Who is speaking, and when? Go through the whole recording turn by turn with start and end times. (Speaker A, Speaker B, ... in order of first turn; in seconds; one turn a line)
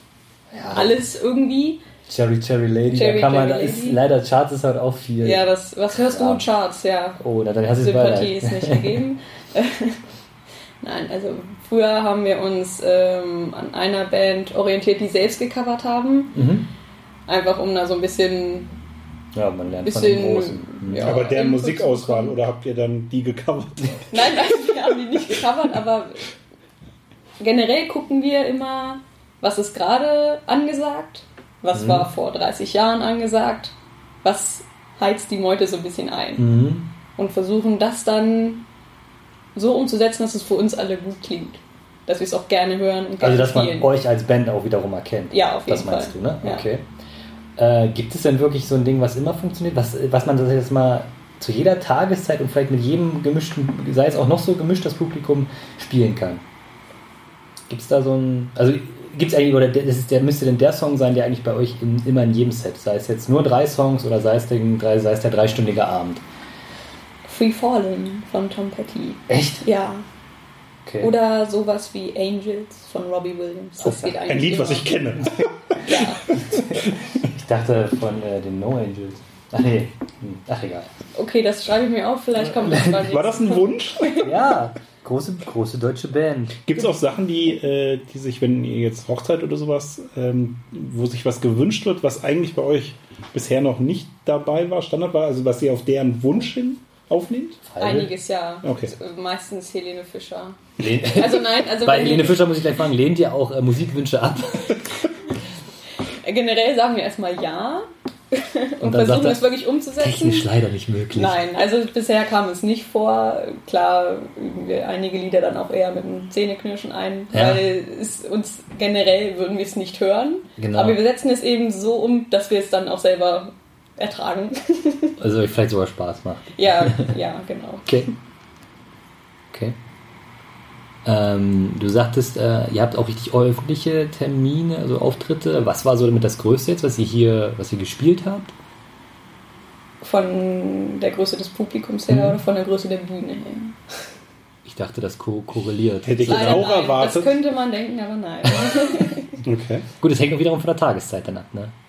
Speaker A: 0.5-1.0
Speaker B: 0.7-1.8
Speaker A: 2.1-6.5
Speaker B: 2.9-4.0
Speaker B: 5.2-7.2
Speaker A: 7.2-9.0
Speaker B: 7.8-10.0
Speaker B: 10.8-16.4
Speaker A: 16.3-16.7
Speaker B: 17.3-18.7
Speaker A: 19.3-21.2
Speaker B: 19.9-22.4
Speaker C: 21.0-24.1
Speaker B: 24.1-26.2
Speaker B: 27.4-36.5
Speaker A: 31.7-32.1
Speaker A: 36.4-36.9
Speaker B: 37.2-38.7
Speaker B: 39.5-43.9
Speaker A: 43.2-46.9
Speaker B: 45.3-46.7
Speaker A: 47.6-56.4
Speaker A: 57.7-66.2
Speaker B: 67.3-70.0
Speaker A: 69.3-69.6
Speaker A: 70.8-71.1
Speaker B: 71.0-74.9
Speaker A: 73.8-74.1
Speaker C: 74.1-76.8
Speaker B: 75.8-76.3
Speaker A: 76.4-80.9
Speaker B: 81.2-84.3
Speaker A: 82.4-83.1
Speaker C: 82.9-84.2
Speaker A: 84.2-86.6
Speaker C: 86.6-97.6
Speaker A: 97.7-98.1
Speaker B: 97.8-102.5
Speaker C: 98.6-98.9
Speaker A: 100.8-105.0
Speaker B: 106.1-110.5
Speaker A: 108.8-111.4
Speaker B: 111.1-125.2
Speaker A: 117.3-117.7
Speaker A: 120.6-121.0
Speaker A: 125.2-127.1
Speaker B: 126.6-127.9
Speaker A: 127.9-128.1
Speaker A: 129.5-129.8
Speaker A: 131.1-138.5
Speaker B: 140.0-143.8
Speaker A: 142.1-142.4
Speaker A: 144.7-146.7
Speaker C: 146.0-147.4
Speaker B: 146.2-149.4
Speaker C: 149.4-149.9
Speaker A: 150.0-151.7